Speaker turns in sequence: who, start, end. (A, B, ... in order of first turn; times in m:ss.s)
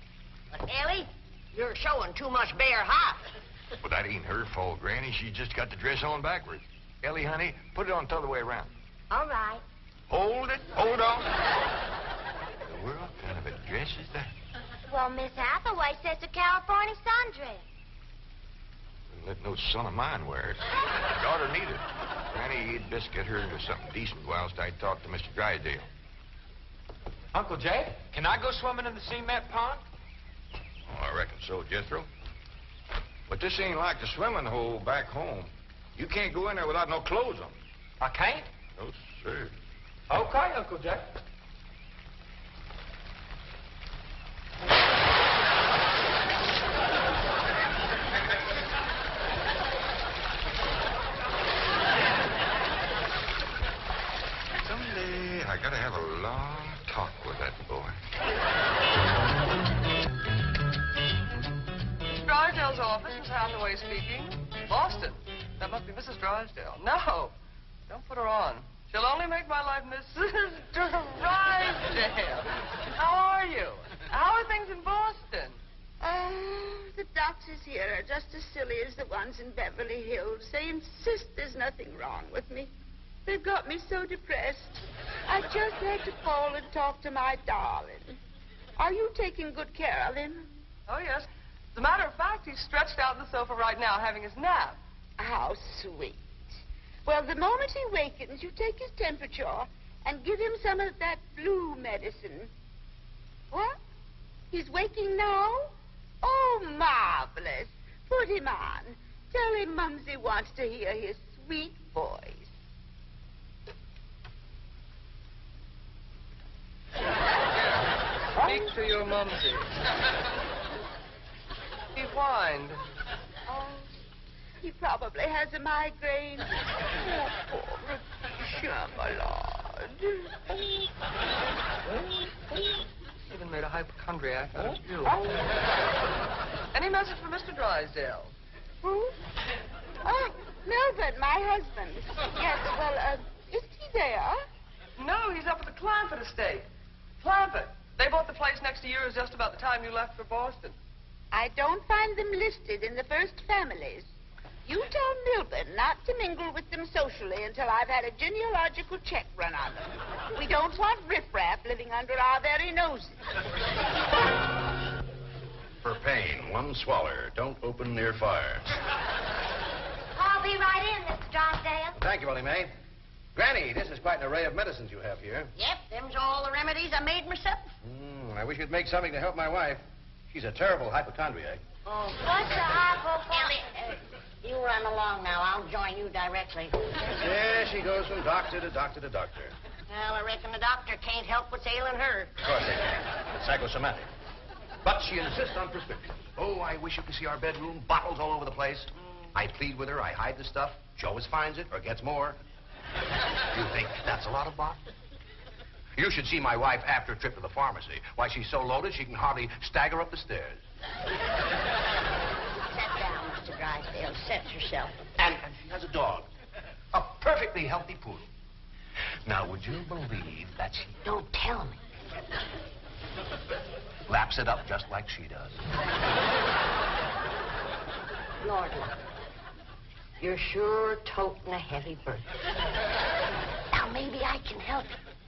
0:00.5-0:03.2 A
0:03.8-0:08.7 B
0:09.1-0:09.6 C
0:10.1-0:11.3 B
0:12.6-0:14.3 B
0:14.9-0:17.6 C
0:19.1-0:25.9 B
0:27.3-0:29.8 D
0:30.9-0:32.1 B
0:33.3-0:37.6 B
0:38.0-0:38.5 D
0:38.8-0:39.5 B
0:40.1-0:41.2 D
0:54.6-0:58.0 B
1:02.0-1:07.4 E
1:07.9-1:15.6 E
1:16.0-1:22.7 F
1:23.3-1:28.2 F
1:28.8-1:30.5 F
1:30.9-1:34.8 E
1:35.2-1:36.2 F
1:37.0-1:42.5 F
1:43.5-1:43.8 F
1:44.5-1:52.5 F
1:57.5-1:59.7 E
2:01.9-2:02.8 E
2:03.5-2:03.9 F
2:04.6-2:10.7 F
2:12.5-2:15.2 E
2:15.1-2:15.4 F
2:16.7-2:18.3 E
2:18.8-2:19.1 F
2:20.0-2:24.4 F
2:25.0-2:26.7 E
2:27.2-2:30.8 E
2:31.3-2:34.1 F
2:34.7-2:43.2 F
2:45.8-2:48.6 G
2:50.1-2:52.0 C
2:52.0-2:52.7 G
2:53.4-2:55.5 G
2:55.6-2:57.7 A
2:57.8-3:01.6 G
3:01.9-3:06.8 A
3:02.2-3:03.6 C
3:07.2-3:09.5 G
3:09.9-3:12.3 A
3:12.4-3:14.1 G
3:14.8-3:22.4 G
3:23.5-3:24.8 G
3:26.0-3:30.6 G
3:32.7-3:35.0 A
3:35.2-3:36.3 G
3:36.9-3:38.3 G
3:39.2-3:41.0 G
3:41.0-3:41.8 A
3:44.1-3:45.6 G
3:48.4-3:49.0 A
3:50.2-3:52.2 A
3:53.7-3:55.0 A